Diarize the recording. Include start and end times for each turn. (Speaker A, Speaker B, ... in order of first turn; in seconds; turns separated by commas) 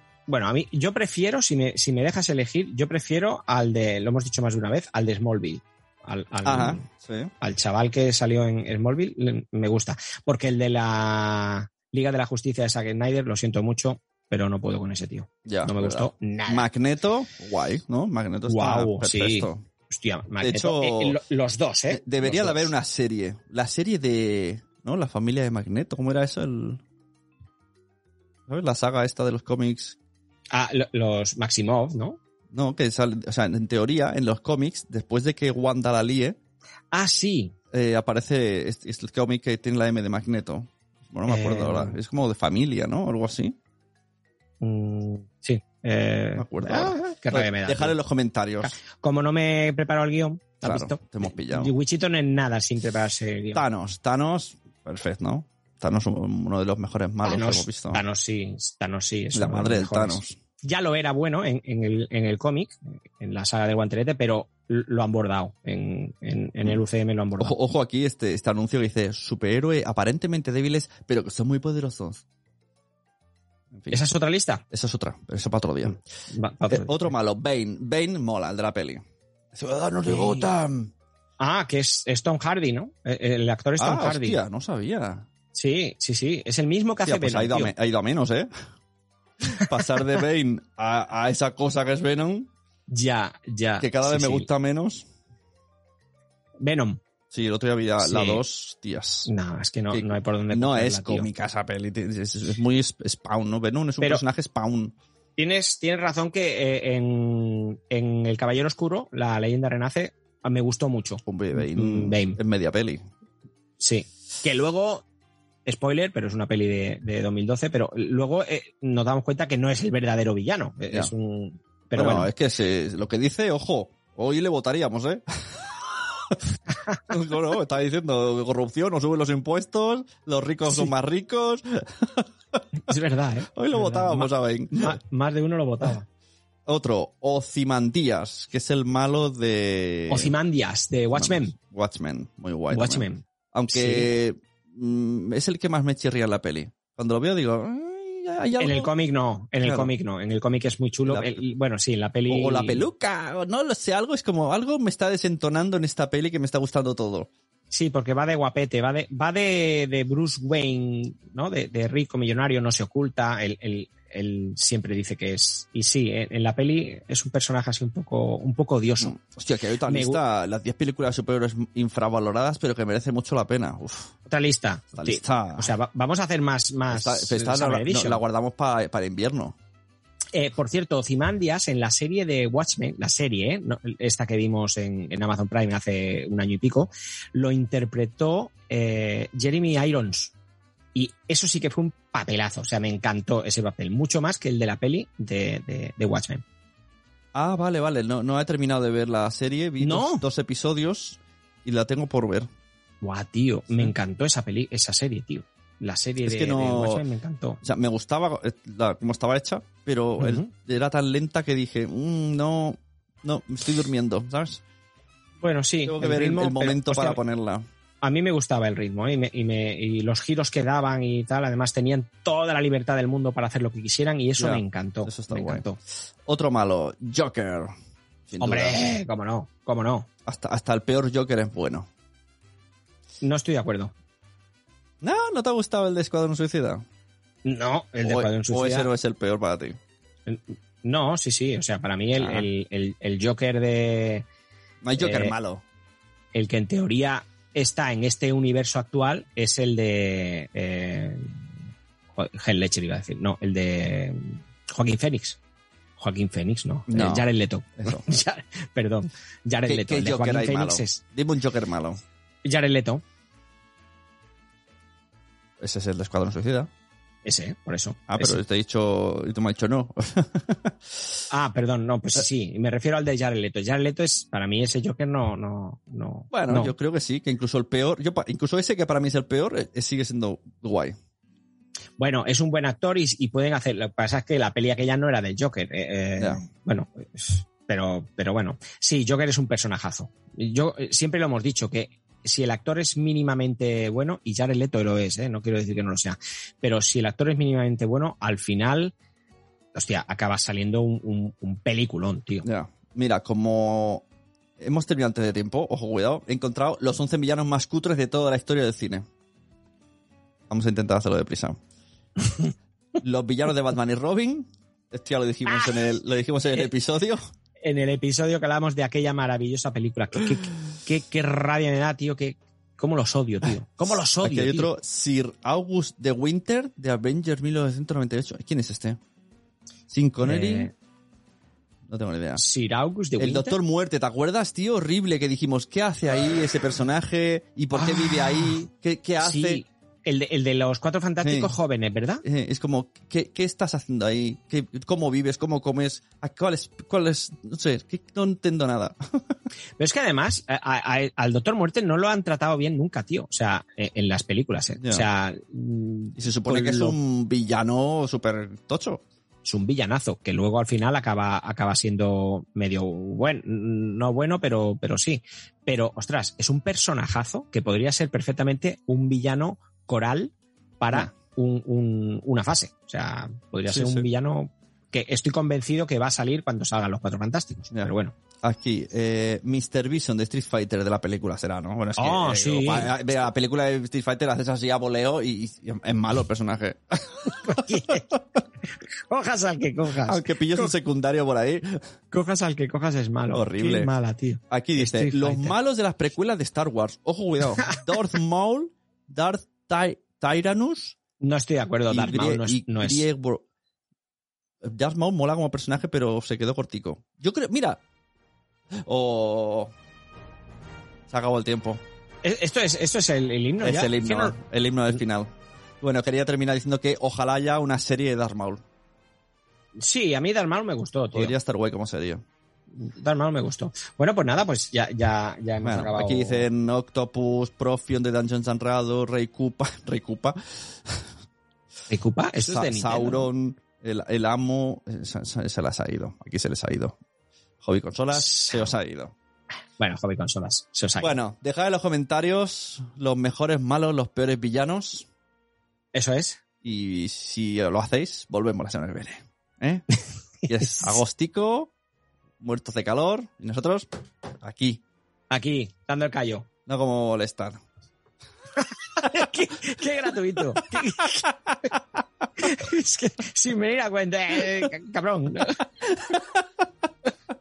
Speaker A: 0.3-6.8, Speaker B: 6.4-7.3, Speaker A: 7.4-16.7, Speaker B: 15.5-19.6, Speaker A: 18.5-22.7, Speaker B: 20.4-21.2, Speaker B: 21.9-26.8, Speaker B: 28.5-30.0, Speaker A: 30.5-32.2, Speaker B: 32.5-36.4, Speaker A: 36.9-37.5, Speaker B: 37.7-43.5, Speaker A: 41.3-42.0, Speaker A: 44.6-48.0, Speaker B: 46.4-48.7, Speaker A: 48.6-53.6, Speaker B: 50.6-51.7, Speaker B: 53.5-58.0, Speaker A: 57.2-67.6, Speaker B: 59.3-60.4, Speaker B: 67.4-72.2, Speaker B: 73.7-74.1, Speaker A: 73.9-74.6, Speaker B: 74.7-76.0, Speaker A: 76.3-77.1, Speaker B: 76.7-79.0, Speaker B: 79.5-80.9, Speaker A: 80.1-80.5, Speaker A: 81.4-84.4, Speaker B: 83.8-85.3, Speaker A: 85.5-87.7, Speaker B: 87.0-88.5, Speaker B: 89.5-92.5, Speaker A: 92.9-94.5, Speaker B: 93.8-95.0, Speaker A: 96.6-97.0, Speaker B: 97.3-99.3, Speaker A: 98.0-98.4, Speaker A: 99.3-101.3, Speaker B: 99.9-105.0, Speaker A: 105.4-112.4, Speaker B: 111.2-113.0, Speaker A: 113.8-115.0, Speaker A: 115.7-122.3, Speaker B: 122.0-126.4, Speaker B: 127.1-132.6, Speaker A: 132.9-136.1, Speaker B: 133.6-135.0, Speaker B: 136.7-140.3, Speaker A: 140.1-141.5, Speaker B: 141.2-148.9, Speaker A: 142.7-144.1, Speaker A: 148.6-152.8, Speaker B: 149.6-149.9, Speaker B: 151.1-151.4, Speaker B: 152.3-157.3, Speaker A: 157.7-169.2, Speaker B: 169.0-174.1, Speaker A: 169.9-170.2, Speaker A: 174.3-178.2, Speaker B: 174.9-175.7, Speaker B: 176.9-179.6, Speaker A: 180.3-190.3, Speaker A: 190.9-196.4, Speaker B: 197.3-202.5, Speaker A: 199.8-200.2, Speaker A: 203.0-207.6, Speaker B: 206.2-207.0, Speaker B: 207.6-214.6, Speaker A: 210.2-210.5, Speaker A: 215.4-217.2, Speaker B: 215.9-217.6, Speaker A: 218.0-225.8, Speaker B: 224.4-225.7, Speaker B: 226.3-227.7, Speaker B: 228.3-228.9, Speaker A: 228.4-230.1, Speaker B: 230.3-231.9, Speaker A: 233.2-233.9, Speaker B: 235.0-236.8, Speaker A: 237.4-238.9, Speaker B: 238.0-239.8, Speaker A: 240.3-244.3, Speaker B: 242.1-242.5, Speaker B: 244.8-245.6, Speaker A: 244.9-245.4, Speaker A: 246.3-251.5, Speaker A: 252.1-255.4, Speaker A: 256.0-261.0, Speaker B: 256.9-257.3, Speaker B: 259.7-262.0, Speaker A: 262.4-263.0, Speaker B: 265.6-266.7, Speaker A: 267.2-268.4, Speaker B: 268.1-270.8, Speaker A: 271.3-276.7, Speaker B: 276.3-280.9, Speaker A: 282.0-298.9, Speaker A: 299.7-302.5, Speaker B: 302.4-304.1, Speaker B: 304.6-309.1, Speaker B: 310.5-311.6, Speaker B: 313.0-317.2, Speaker A: 315.5-315.9, Speaker A: 317.6-324.7, Speaker B: 324.2-329.0, Speaker B: 329.9-330.7, Speaker A: 330.2-330.7, Speaker B: 331.9-332.4, Speaker A: 332.4-333.6, Speaker B: 333.2-339.6, Speaker A: 337.8-338.7, Speaker A: 339.2-342.2, Speaker B: 341.2-341.5, Speaker B: 342.2-349.0, Speaker A: 349.8-357.0, Speaker B: 354.8-355.1, Speaker B: 356.2-359.0, Speaker A: 359.4-378.1, Speaker B: 373.7-374.1, Speaker B: 378.4-387.9, Speaker A: 382.0-383.0, Speaker A: 387.4-388.2, Speaker A: 388.8-390.7, Speaker B: 390.1-391.8, Speaker A: 392.1-395.6, Speaker B: 393.3-393.9, Speaker B: 394.5-401.0, Speaker A: 401.2-403.1, Speaker B: 401.9-403.4, Speaker B: 404.6-407.8, Speaker B: 408.9-409.7, Speaker B: 411.1-411.8, Speaker A: 412.2-414.4, Speaker B: 413.6-415.3, Speaker B: 415.8-418.6, Speaker A: 419.8-421.4, Speaker B: 421.1-422.2, Speaker A: 422.8-426.5, Speaker B: 425.6-431.0, Speaker A: 431.9-433.3, Speaker B: 432.4-437.0, Speaker B: 437.6-439.1, Speaker A: 438.1-438.7, Speaker A: 439.8-441.2, Speaker B: 441.0-445.1, Speaker A: 445.9-446.4, Speaker B: 446.6-449.9, Speaker B: 450.5-451.7, Speaker B: 452.4-453.9, Speaker B: 454.4-454.8, Speaker A: 455.3-456.5, Speaker B: 456.7-457.6, Speaker A: 459.0-461.2, Speaker B: 460.8-461.2, Speaker A: 462.4-465.6, Speaker B: 466.0-466.4